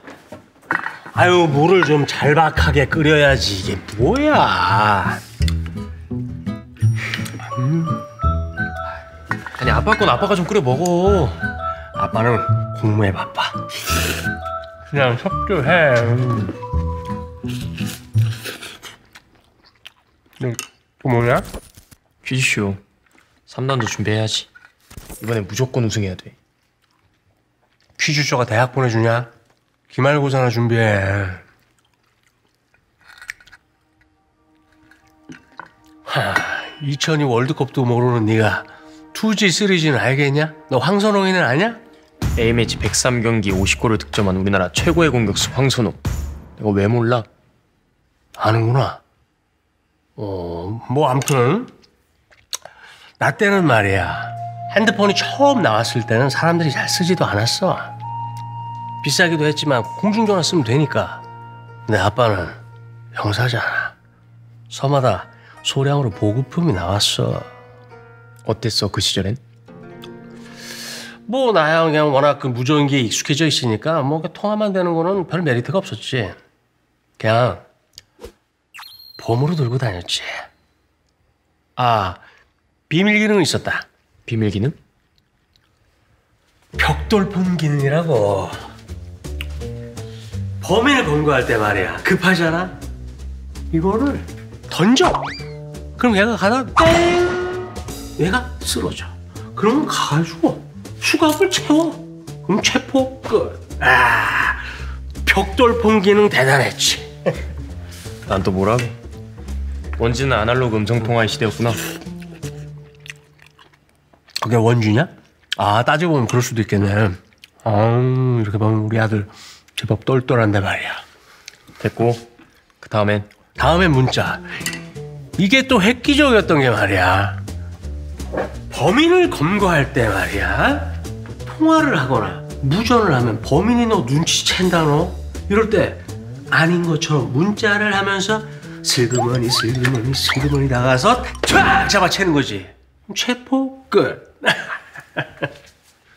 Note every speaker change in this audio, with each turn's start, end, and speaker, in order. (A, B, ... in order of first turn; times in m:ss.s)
0:01.1-0:05.2 A
0:07.5-0:08.0 A
0:09.6-0:11.4 B
0:12.0-0:13.6 A
0:14.9-0:16.6 A
0:20.4-0:21.4 A
0:22.2-0:22.8 B
0:23.5-0:24.5 B
0:25.2-0:26.3 B
0:28.0-0:29.3 A
0:29.9-0:31.4 A
0:36.0-0:41.8 A
0:42.4-0:46.0 B
0:46.6-0:47.3 B
0:48.4-0:49.0 A
0:50.2-0:51.7 A
0:53.2-0:57.9 A
0:59.0-1:01.2 A
1:01.9-1:02.6 A
1:03.1-1:03.9 A
1:04.7-1:07.5 A
1:08.4-1:09.4 B
1:11.3-1:16.3 A
1:17.2-1:17.6 A
1:19.2-1:20.4 A
1:21.8-1:22.2 A
1:22.9-1:23.8 A
1:24.2-1:24.8 B
1:26.8-1:28.6 A
1:30.6-1:32.8 A
1:33.7-1:35.2 A
1:36.0-1:44.7 A
1:45.2-1:47.1 A
1:48.3-1:49.0 B
1:50.0-1:51.8 B
1:54.4-2:01.0 A
2:01.8-2:02.2 B
2:02.8-2:03.3 B
2:03.6-2:04.5 A
2:05.4-2:07.4 A
2:08.7-2:25.5 A